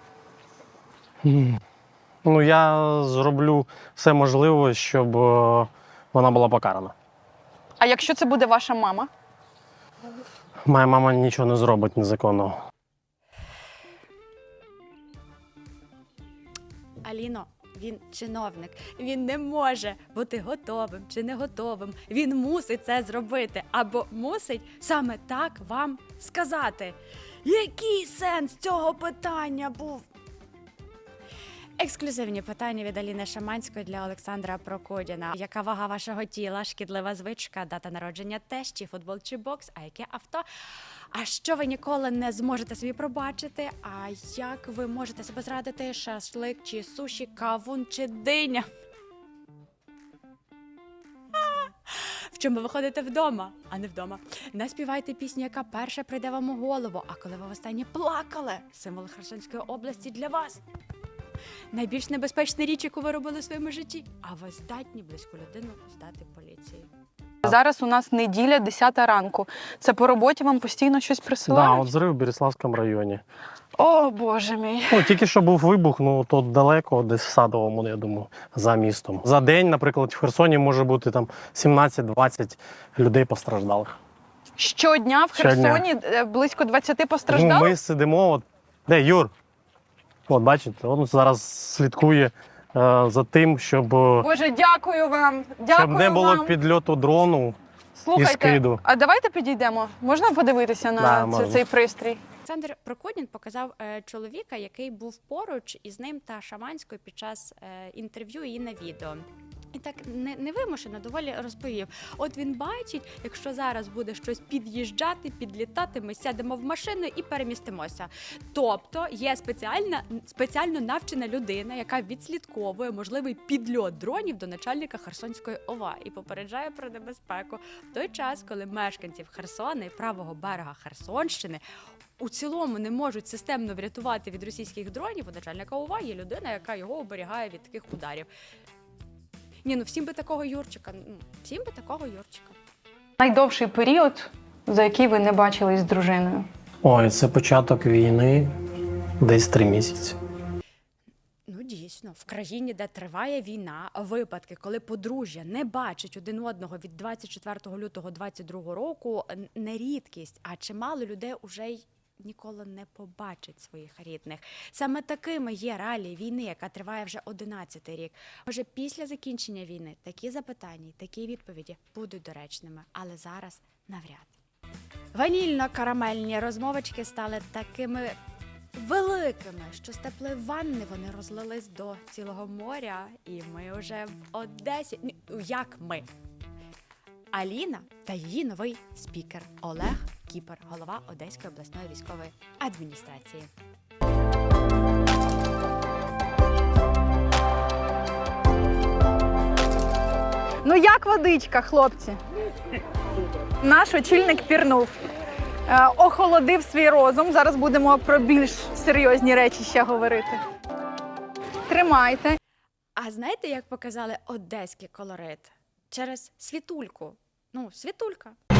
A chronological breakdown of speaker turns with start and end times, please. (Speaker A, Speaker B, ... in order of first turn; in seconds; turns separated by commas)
Speaker A: 1.2-1.6, Speaker A: 2.2-6.9, Speaker B: 7.8-9.1, Speaker A: 10.7-12.6, Speaker C: 17.0-30.1, Speaker C: 31.8-40.5, Speaker C: 41.1-48.7, Speaker C: 51.4-60.6, Speaker C: 61.7-66.9, Speaker B: 67.4-71.9, Speaker A: 71.5-73.2, Speaker B: 73.8-75.1, Speaker A: 74.9-84.0, Speaker B: 84.6-87.7, Speaker A: 85.3-85.8, Speaker A: 87.3-89.3, Speaker A: 90.3-94.3, Speaker B: 94.2-96.5, Speaker A: 95.7-97.6, Speaker B: 97.9-102.2, Speaker A: 98.1-98.8, Speaker A: 101.0-101.7, Speaker C: 102.4-131.6, Speaker C: 132.2-138.3, Speaker C: 139.6-142.6, Speaker B: 143.2-146.5, Speaker A: 146.8-148.5, Speaker A: 149.2-150.2, Speaker C: 151.5-174.3, Speaker C: 175.1-178.2, Speaker C: 178.7-186.1, Speaker C: 187.3-193.5, Speaker B: 200.6-202.2, Speaker B: 203.6-204.9, Speaker B: 205.7-210.4, Speaker B: 211.7-212.4, Speaker C: 212.9-218.3